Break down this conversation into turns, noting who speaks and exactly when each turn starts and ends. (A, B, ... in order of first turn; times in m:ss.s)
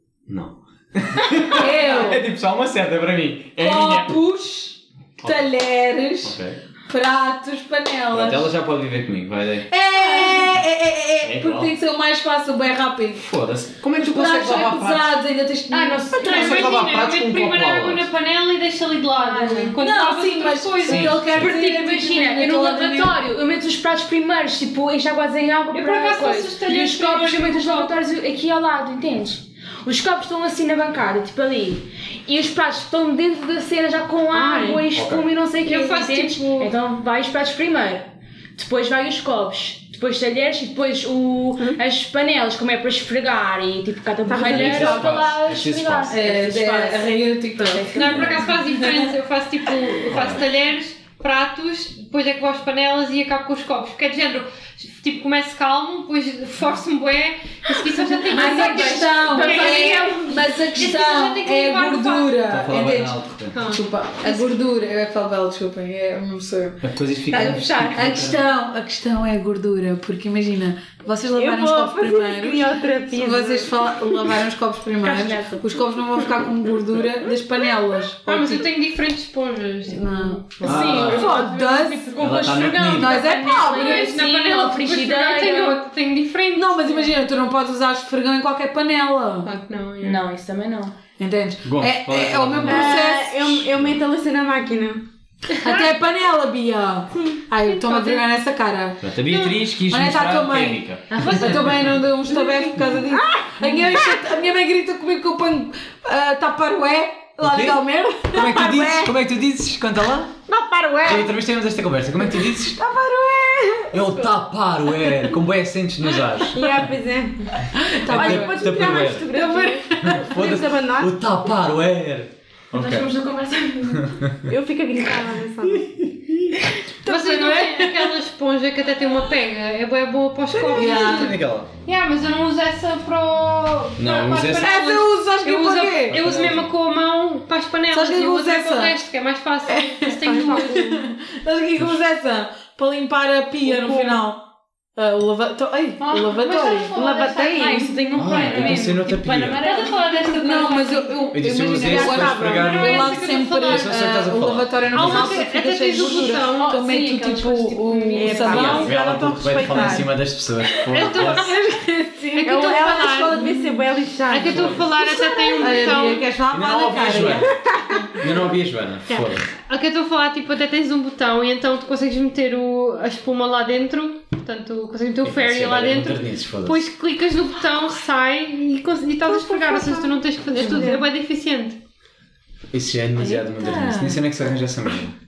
0:00.3-0:04.2 A
0:01.5-0:02.2 B
0:01.5-0:02.1 C
0:03.6-0:06.4 B
0:05.2-0:05.4 A
0:06.2-0:06.6 A
0:06.9-0:08.5 B
0:08.1-0:09.7 A
0:09.7-0:13.2 B
0:10.0-0:10.3 D
0:11.2-0:11.7 A
0:13.2-0:15.1 A
0:13.9-0:16.7 B
0:15.7-0:16.6 C
0:16.2-0:21.2 E
0:16.2-0:18.1 A
0:19.3-0:19.8 C
0:19.3-0:23.2 B
0:20.8-0:21.5 A
0:21.1-0:48.0 C
0:25.7-0:28.0 E
0:34.3-0:34.9 D
0:34.9-0:35.3 A
0:35.6-0:36.7 E
0:44.2-0:45.1 D
0:44.4-0:46.2 A
0:44.8-0:45.0 B
0:46.1-0:49.1 B
0:47.9-1:02.4 E
0:48.1-0:48.5 A
0:50.0-0:50.4 A
0:58.2-1:00.7 C
0:58.3-1:18.7 B
1:02.5-1:03.6 A
1:03.5-1:04.6 E
1:06.8-1:08.4 A
1:11.3-1:14.4 D
1:15.0-1:15.6 C
1:18.2-1:21.4 E
1:19.9-1:24.2 B
1:20.6-1:25.8 C
1:20.6-1:21.4 A
1:22.2-1:23.3 A
1:23.4-1:27.1 E
1:26.5-1:29.5 B
1:29.4-1:30.2 E
1:30.0-1:30.9 C
1:31.2-1:33.7 B
1:31.6-1:33.2 A
1:32.6-1:35.0 D
1:35.6-1:39.0 B
1:37.7-1:38.2 E
1:39.0-1:42.0 A
1:39.3-1:39.6 E
1:39.9-1:49.1 B
1:41.1-1:41.9 E
1:43.1-1:44.2 D
1:47.4-1:47.8 A
1:48.3-1:50.3 A
1:48.3-1:48.9 D
1:50.5-1:51.3 D
1:51.0-1:52.8 A
1:52.7-1:54.3 D
1:53.9-1:56.9 A
1:56.5-1:57.5 D
1:57.7-1:58.6 B
1:58.1-2:01.1 D
1:58.1-1:59.4 A
1:59.4-1:59.7 E
2:00.0-2:03.1 A
2:02.7-2:04.1 C
2:04.5-2:06.0 D
2:07.0-2:08.1 B
2:07.0-2:21.0 E
2:10.7-2:11.3 B
2:10.7-2:11.7 A
2:14.0-2:14.8 A
2:14.5-2:16.2 B
2:16.1-2:16.7 A
2:17.9-2:18.9 B
2:19.7-2:24.4 B
2:20.2-2:20.9 D
2:23.6-2:24.2 D
2:25.0-2:26.9 B
2:26.0-2:31.1 C
2:26.1-2:26.9 E
2:26.9-2:28.0 D
2:28.1-2:29.6 A
2:29.6-2:31.1 E
2:30.4-2:39.0 B
2:31.3-2:35.4 A
2:31.8-2:32.7 D
2:32.6-2:34.0 E
2:34.9-2:36.7 E
2:35.9-2:38.9 C
2:38.1-2:40.1 D
2:38.5-2:41.5 A
2:39.7-2:40.0 B
2:40.9-2:41.6 E
2:41.0-2:43.8 B
2:42.4-2:43.5 E
2:42.4-2:44.9 D
2:44.3-2:46.3 E
2:44.4-2:44.9 A
2:45.2-2:45.5 C
2:45.6-2:47.5 B
2:46.5-2:47.5 A
2:47.4-2:48.1 D
2:48.2-2:49.5 A
2:49.1-3:01.8 E
2:55.2-2:56.8 A
2:59.2-3:01.0 D
3:02.7-3:05.1 A
3:03.3-3:04.2 B